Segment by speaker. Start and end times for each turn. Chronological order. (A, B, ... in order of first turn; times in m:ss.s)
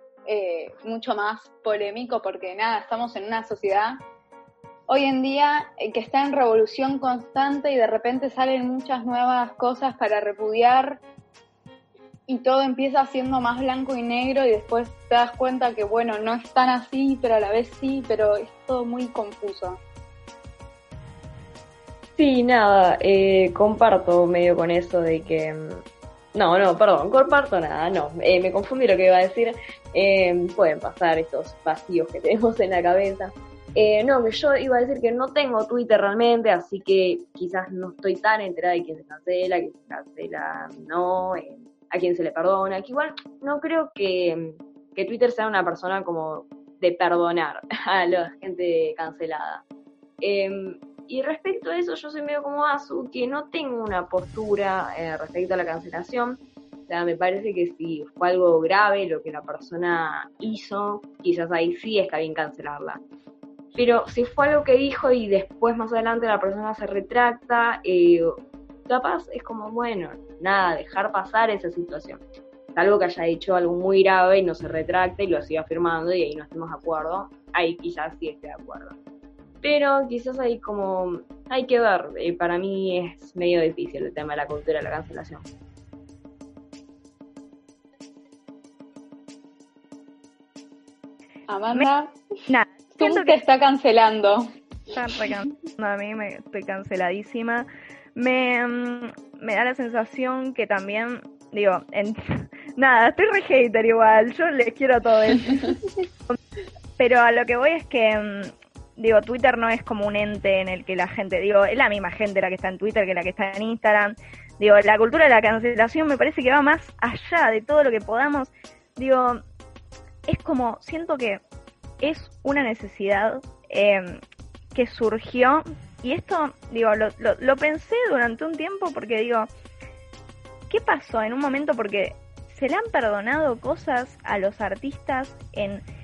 0:00.2-0:04.0 A
0:04.9-0:11.0 A
0:12.3-0:19.8 A
0:22.2-0:49.6 B
0:50.2-1:03.0 B
1:03.7-1:08.3 B
1:08.9-1:12.2 B
1:12.7-1:18.9 B
1:19.6-1:25.4 B
1:31.5-1:32.1 A
1:32.5-1:33.4 C
1:32.9-1:34.5 A
1:34.9-1:45.8 C
1:47.0-1:59.4 C
2:00.3-2:01.4 C
2:02.0-2:04.2 C
2:04.7-2:09.5 C
2:10.7-2:15.8 C